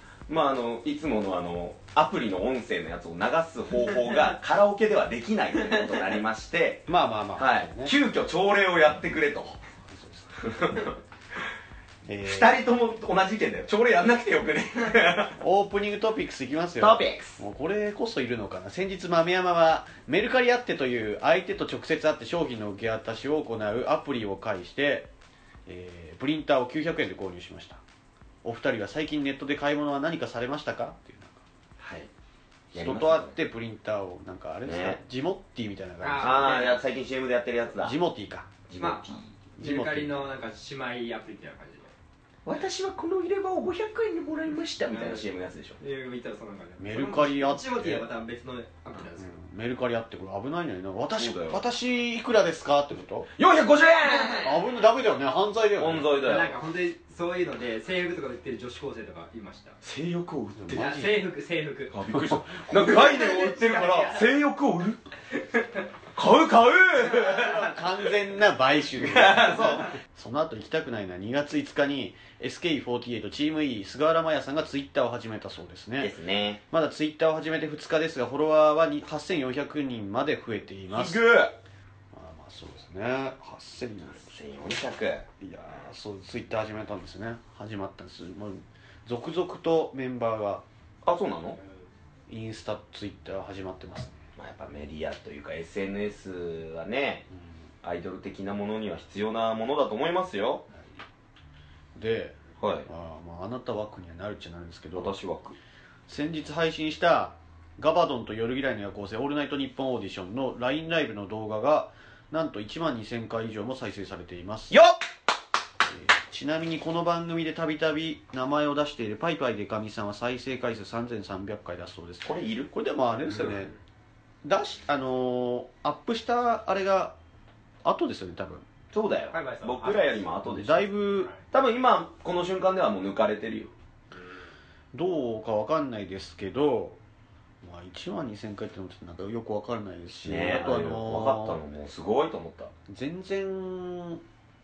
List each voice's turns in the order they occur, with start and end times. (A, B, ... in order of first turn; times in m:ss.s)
0:00.3-0:09.6 A
0:06.9-0:07.9 B
0:09.9-0:10.3 B
0:10.4-0:10.9 A
0:12.0-0:12.6 B
0:12.2-0:15.3 A
0:15.4-0:25.1 B
0:16.8-0:17.4 A
0:25.6-0:27.8 B
0:28.4-0:31.4 B
0:31.8-0:32.1 A
0:32.7-0:33.4 A
0:32.7-0:36.7 B
0:34.6-0:35.0 A
0:36.0-0:36.8 C
0:36.2-0:38.0 A
0:37.8-0:38.5 B
0:38.7-0:39.3 A
0:38.8-0:41.9 C
0:39.6-0:40.3 B
0:42.4-0:45.8 A
0:44.9-0:49.3 C
0:46.8-0:48.1 B
0:49.2-0:53.3 B
0:51.2-0:51.6 A
0:53.4-0:54.6 A
0:54.4-0:56.1 B
0:55.8-0:56.6 A
0:56.2-0:59.8 C
0:59.8-1:00.8 A
1:00.6-1:01.3 B
1:00.7-1:02.0 C
1:01.9-1:05.0 A
1:02.2-1:03.0 B
1:02.7-1:04.2 C
1:06.1-1:07.7 A
1:07.1-1:16.1 B
1:09.0-1:09.9 A
1:16.0-1:16.6 A
1:16.7-1:21.2 B
1:20.9-1:21.5 A
1:22.1-1:24.4 B
1:24.1-1:25.2 A
1:25.4-1:30.6 B
1:31.0-1:31.6 A
1:32.3-1:34.2 B
1:34.4-1:37.2 A
1:37.8-1:40.6 A
1:41.9-1:45.2 B
1:42.6-1:42.9 A
1:44.9-1:45.6 A
1:46.1-1:54.8 B
1:54.7-1:55.0 A
1:55.8-2:03.7 B
2:02.2-2:02.7 A
2:04.4-2:07.2 B
2:07.8-2:08.6 B
2:08.9-2:10.9 A
2:09.3-2:10.2 C
2:10.4-2:11.3 B
2:11.5-2:13.7 A
2:14.9-2:17.0 B
2:17.6-2:21.6 B
2:20.2-2:22.7 A
2:22.9-2:24.2 B